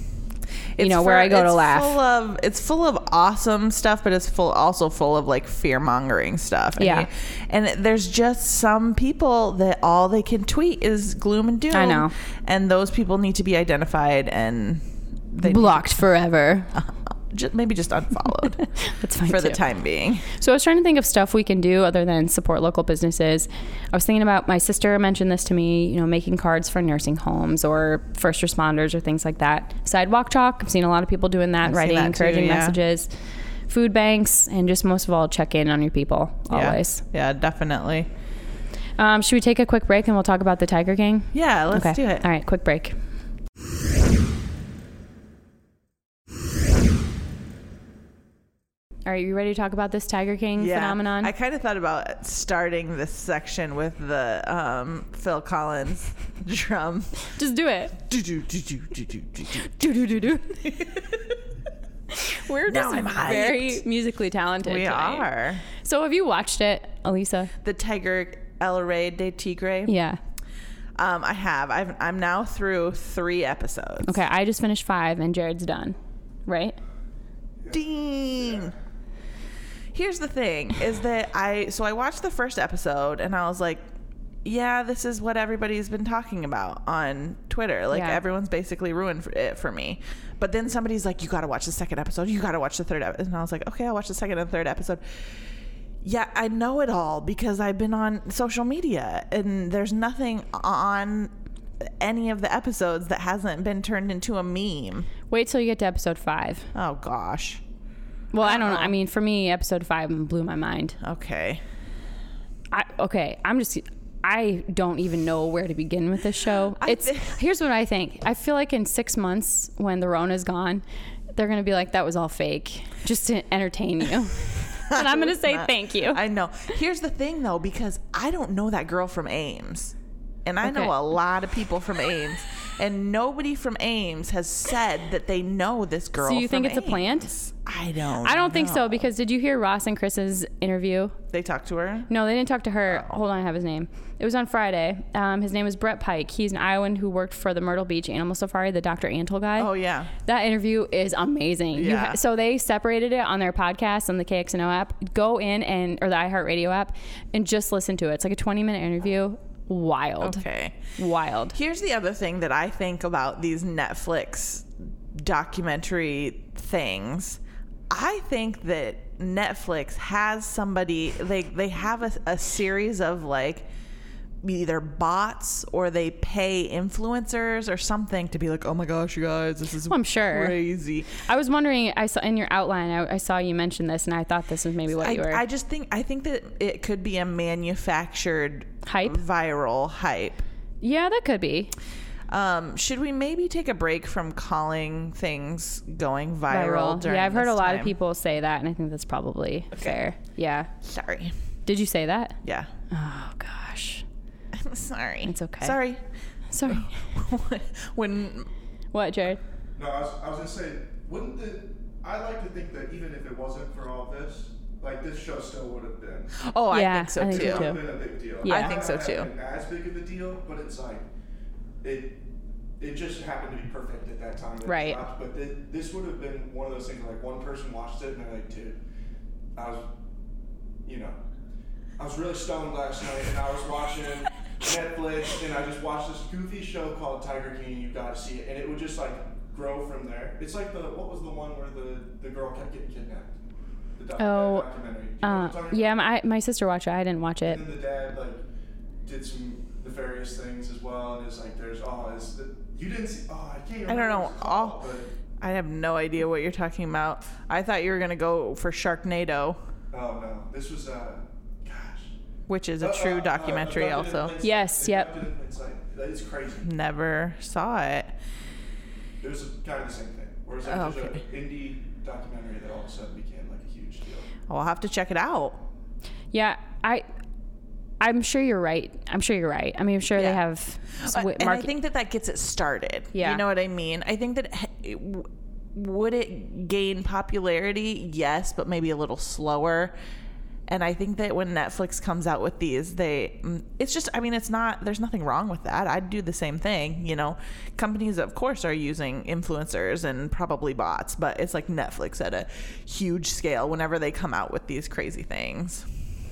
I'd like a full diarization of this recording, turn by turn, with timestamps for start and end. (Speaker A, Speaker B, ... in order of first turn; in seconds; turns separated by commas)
Speaker A: 0.8-15.8, Speaker B: 0.8-2.0, Speaker B: 6.8-7.1, Speaker B: 11.7-12.1, Speaker B: 15.4-16.7, Speaker A: 16.7-18.6, Speaker B: 18.8-19.6, Speaker A: 19.2-20.3, Speaker B: 20.3-33.1, Speaker A: 31.6-32.8, Speaker B: 33.7-37.0, Speaker A: 36.5-38.1, Speaker B: 39.0-42.9, Speaker A: 41.3-42.2, Speaker B: 49.1-51.3, Speaker A: 50.6-57.2, Speaker B: 57.3-58.0, Speaker A: 58.0-61.3, Speaker B: 59.8-60.6, Speaker B: 62.1-67.5, Speaker A: 62.6-63.8, Speaker A: 64.6-65.6, Speaker A: 67.6-69.9, Speaker B: 69.9-70.2, Speaker A: 71.0-74.1, Speaker B: 74.0-76.0, Speaker B: 76.5-76.8, Speaker A: 77.7-78.7, Speaker C: 78.4-78.7, Speaker A: 79.9-83.8, Speaker A: 84.4-95.0, Speaker B: 87.9-88.2, Speaker A: 96.0-101.3, Speaker A: 101.8-105.1, Speaker B: 105.3-106.7, Speaker A: 106.7-107.6, Speaker B: 108.3-111.0, Speaker A: 108.4-108.9, Speaker A: 111.0-111.6, Speaker B: 112.7-120.8, Speaker A: 116.8-117.4, Speaker B: 121.3-126.2, Speaker A: 124.8-139.1, Speaker B: 130.6-130.9, Speaker B: 136.2-137.3, Speaker B: 138.2-141.2, Speaker A: 141.3-142.1, Speaker B: 142.1-149.7, Speaker A: 149.6-150.1, Speaker B: 150.2-160.4, Speaker A: 151.7-152.2, Speaker A: 160.2-160.8, Speaker B: 160.9-161.6, Speaker A: 161.5-173.7, Speaker A: 174.4-181.2, Speaker B: 179.9-180.6, Speaker B: 181.2-185.4, Speaker A: 185.0-190.4, Speaker B: 188.8-189.2, Speaker B: 190.8-191.7, Speaker A: 192.3-197.9, Speaker B: 196.5-200.7, Speaker A: 199.7-200.0, Speaker A: 200.8-201.3, Speaker B: 201.7-202.4, Speaker A: 202.4-202.7, Speaker B: 202.9-204.0, Speaker A: 204.5-206.0, Speaker B: 205.2-205.8, Speaker B: 206.5-207.0, Speaker A: 206.6-208.5, Speaker B: 208.9-209.4, Speaker C: 209.8-216.4, Speaker A: 216.4-217.7, Speaker B: 216.7-217.8, Speaker C: 217.2-221.0, Speaker B: 218.4-218.8, Speaker A: 218.4-219.3, Speaker C: 221.8-222.2, Speaker C: 222.8-228.8, Speaker B: 224.6-225.0, Speaker C: 229.5-229.8, Speaker C: 230.8-231.1, Speaker C: 232.0-243.3, Speaker C: 243.9-246.0, Speaker B: 244.2-244.7, Speaker B: 245.2-247.6, Speaker C: 247.4-248.4, Speaker C: 249.0-255.1, Speaker A: 253.9-254.8, Speaker A: 255.4-259.6, Speaker C: 259.9-262.1, Speaker A: 262.5-264.3, Speaker C: 262.8-266.7, Speaker B: 264.4-265.1, Speaker A: 266.6-268.1, Speaker C: 269.2-274.3, Speaker A: 270.6-271.2, Speaker A: 274.5-275.6, Speaker B: 276.3-277.0, Speaker B: 278.0-281.7, Speaker A: 280.1-280.4, Speaker A: 281.0-289.9, Speaker B: 283.1-283.4, Speaker A: 290.7-305.9